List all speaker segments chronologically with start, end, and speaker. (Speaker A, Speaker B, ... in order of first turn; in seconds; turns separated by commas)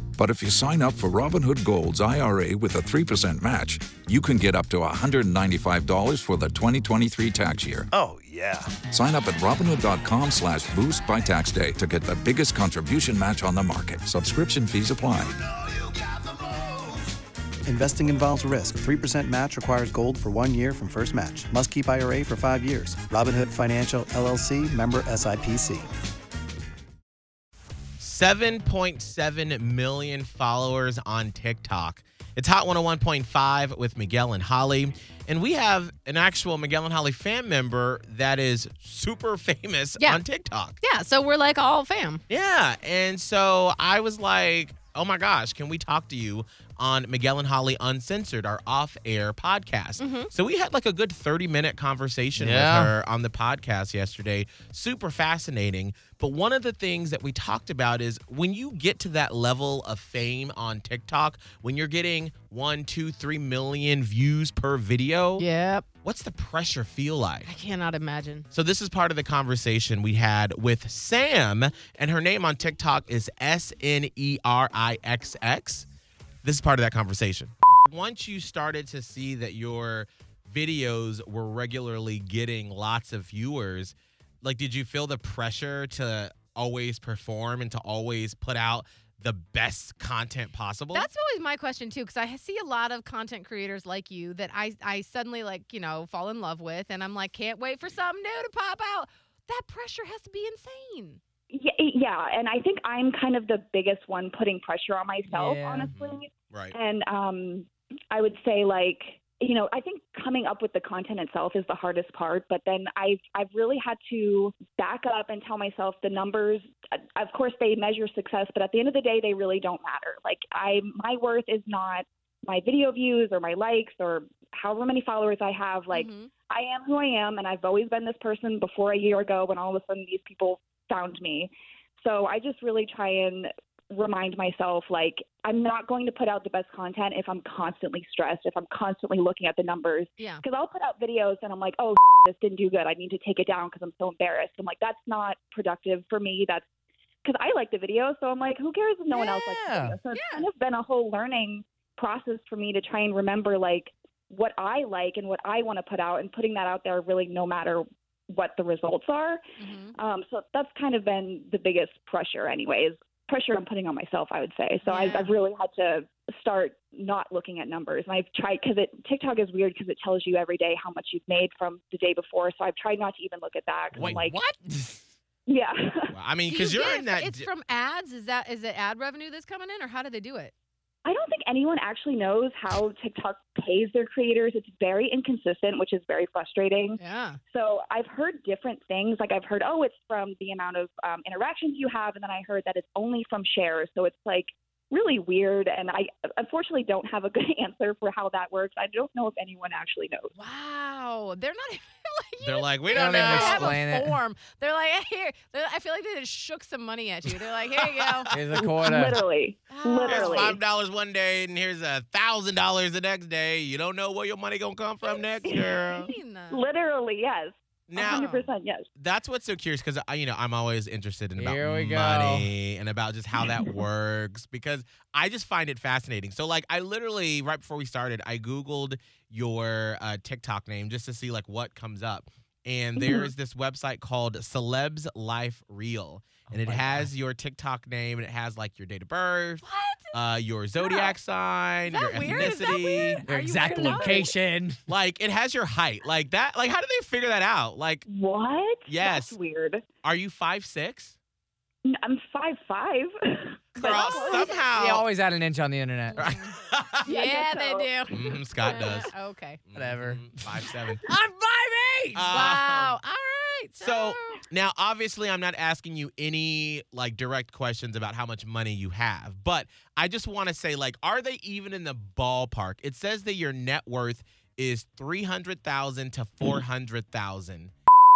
Speaker A: 0.2-7.9, Speaker B: 7.9-8.7, Speaker A: 8.8-15.4, Speaker B: 16.6-16.9, Speaker B: 17.7-25.9, Speaker C: 28.0-40.8, Speaker D: 40.8-42.2, Speaker C: 42.3-65.5, Speaker D: 50.0-50.3, Speaker E: 52.4-52.9, Speaker D: 65.4-65.8, Speaker C: 66.0-67.5, Speaker D: 67.5-68.5, Speaker C: 68.5-75.9, Speaker C: 76.4-91.1, Speaker D: 90.9-101.2, Speaker F: 101.5-146.7, Speaker E: 105.3-105.9, Speaker C: 105.8-106.8, Speaker D: 125.9-126.3, Speaker F: 147.2-159.4, Speaker E: 149.1-150.0, Speaker D: 150.1-150.5, Speaker D: 159.6-160.0, Speaker F: 159.9-174.4, Speaker D: 164.9-165.4, Speaker C: 174.0-174.3, Speaker E: 174.2-175.0, Speaker F: 175.5-176.1, Speaker C: 176.1-177.5, Speaker D: 176.5-180.5, Speaker F: 181.1-187.0, Speaker D: 187.0-187.4, Speaker F: 187.5-200.3, Speaker D: 200.4-208.3, Speaker C: 202.4-203.8, Speaker E: 202.9-204.2, Speaker C: 207.7-208.4, Speaker E: 208.3-209.2, Speaker F: 208.5-210.6, Speaker D: 209.7-210.6, Speaker C: 210.1-216.1, Speaker F: 215.4-215.9, Speaker D: 216.0-216.6, Speaker F: 216.5-218.8, Speaker C: 217.9-218.3, Speaker D: 218.1-218.5, Speaker C: 219.0-243.2, Speaker E: 221.4-222.5, Speaker F: 223.4-223.7, Speaker F: 233.0-233.3, Speaker E: 236.6-237.0, Speaker D: 239.6-240.2, Speaker D: 241.9-244.3, Speaker E: 243.2-244.8, Speaker F: 243.7-244.3, Speaker C: 244.9-248.1, Speaker F: 248.1-249.8, Speaker C: 248.9-249.3, Speaker C: 250.0-251.2, Speaker F: 251.8-254.6, Speaker C: 253.8-255.1, Speaker D: 253.8-254.6, Speaker E: 254.8-256.2, Speaker D: 256.2-256.5, Speaker C: 256.2-257.1, Speaker D: 257.1-258.1, Speaker F: 257.1-259.1, Speaker C: 258.1-259.1, Speaker D: 258.7-259.6, Speaker C: 259.7-261.1, Speaker E: 259.8-262.3, Speaker C: 262.1-263.0, Speaker D: 262.3-264.4, Speaker C: 263.8-277.7